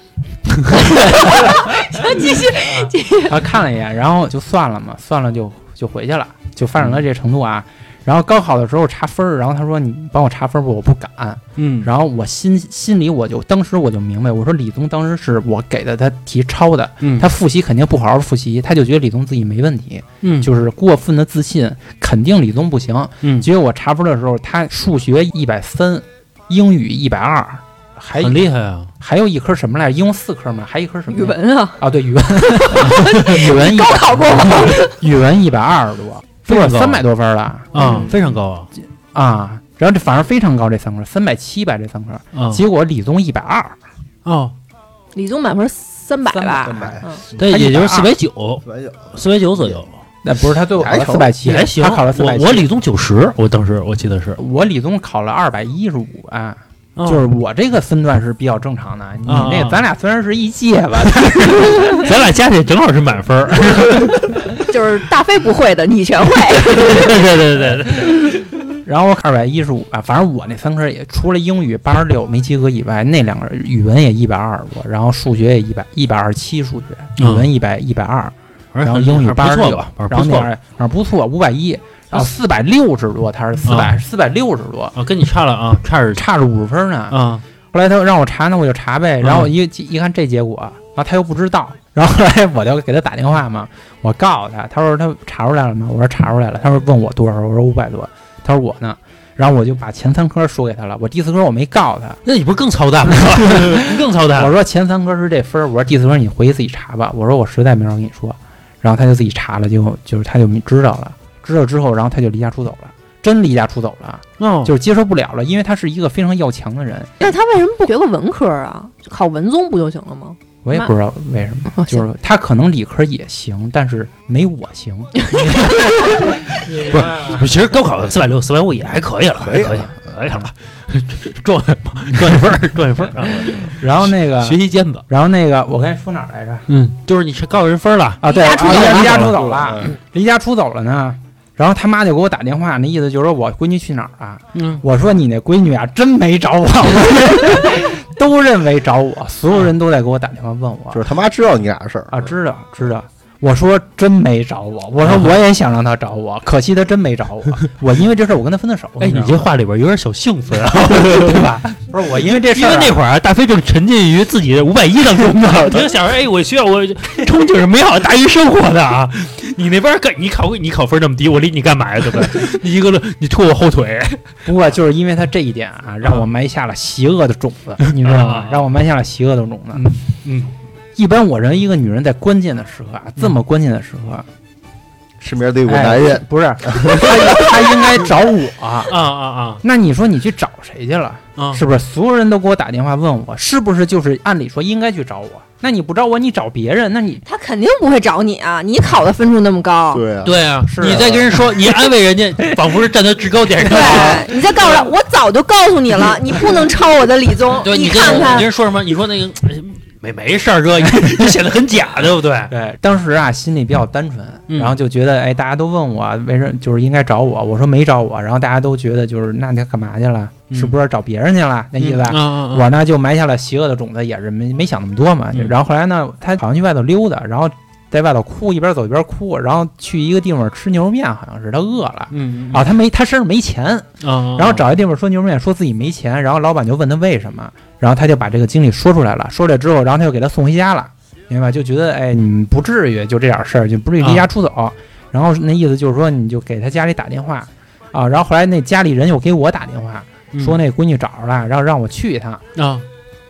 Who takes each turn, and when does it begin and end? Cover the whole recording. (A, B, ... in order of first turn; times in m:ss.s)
0:00.7-0:03.4 A
0:00.7-0:28.4 B
0:11.6-0:11.9 C
0:17.0-0:17.3 C
0:20.2-0:20.5 C
0:23.2-0:23.5 C
0:28.2-0:28.9 C
0:29.0-0:38.1 B
0:31.1-0:31.8 A
0:32.6-0:34.9 A
0:36.5-0:37.0 C
0:37.7-0:38.7 C
0:37.8-0:38.1 D
0:39.1-0:43.8 B
0:42.3-0:42.6 C
0:44.2-0:44.5 C
0:45.1-0:47.2 A
0:46.3-0:48.1 B
0:46.6-0:47.2 D
0:47.4-0:49.9 C
0:48.6-0:49.8 D
0:50.2-0:52.7 B
0:50.8-0:51.3 D
0:51.4-0:54.4 C
0:54.4-1:02.1 B
0:57.0-0:57.2 C
0:59.2-0:59.9 C
1:01.1-1:04.4 C
1:04.7-1:07.1 A
1:06.6-1:08.5 C
1:08.8-1:24.9 B
1:17.2-1:17.5 C
1:18.7-1:20.5 C
1:23.6-1:24.0 C
1:25.0-1:26.2 C
1:26.2-1:27.2 B
1:27.1-1:27.4 C
1:27.7-1:42.2 B
1:29.2-1:29.5 C
1:42.2-1:44.5 C
1:43.1-1:57.1 B
1:54.4-1:54.7 C
1:57.2-2:00.9 A
2:00.6-2:07.4 B
2:01.7-2:02.0 A
2:05.5-2:15.0 C
2:09.4-2:09.9 D
2:13.7-2:16.6 B
2:16.7-2:19.4 C
2:18.2-2:31.0 B
2:18.2-2:19.3 A
2:19.3-2:19.9 D
2:24.5-2:24.8 C
2:30.9-2:32.3 D
2:32.1-2:39.4 B
2:35.0-2:35.3 C
2:39.0-2:41.6 C
2:40.9-2:43.0 B
2:42.2-2:54.2 C
2:54.4-2:59.9 B
2:58.0-2:58.7 C
2:59.7-3:00.5 C
3:01.0-3:04.3 B
3:05.2-3:07.8 D
3:05.7-3:08.9 B
3:08.9-3:09.6 C
3:09.6-3:17.2 B
3:11.4-3:11.6 C
3:17.2-3:20.0 A
3:19.9-3:21.2 D
3:20.2-3:24.5 C
3:20.6-3:21.4 B
3:23.6-3:28.5 A
3:27.6-3:32.5 C
3:32.5-4:12.4 B
3:34.5-3:34.7 C
3:40.5-3:40.8 C
3:41.8-3:42.7 C
3:52.1-3:52.6 C
3:54.0-3:54.6 C
4:12.6-4:12.8 C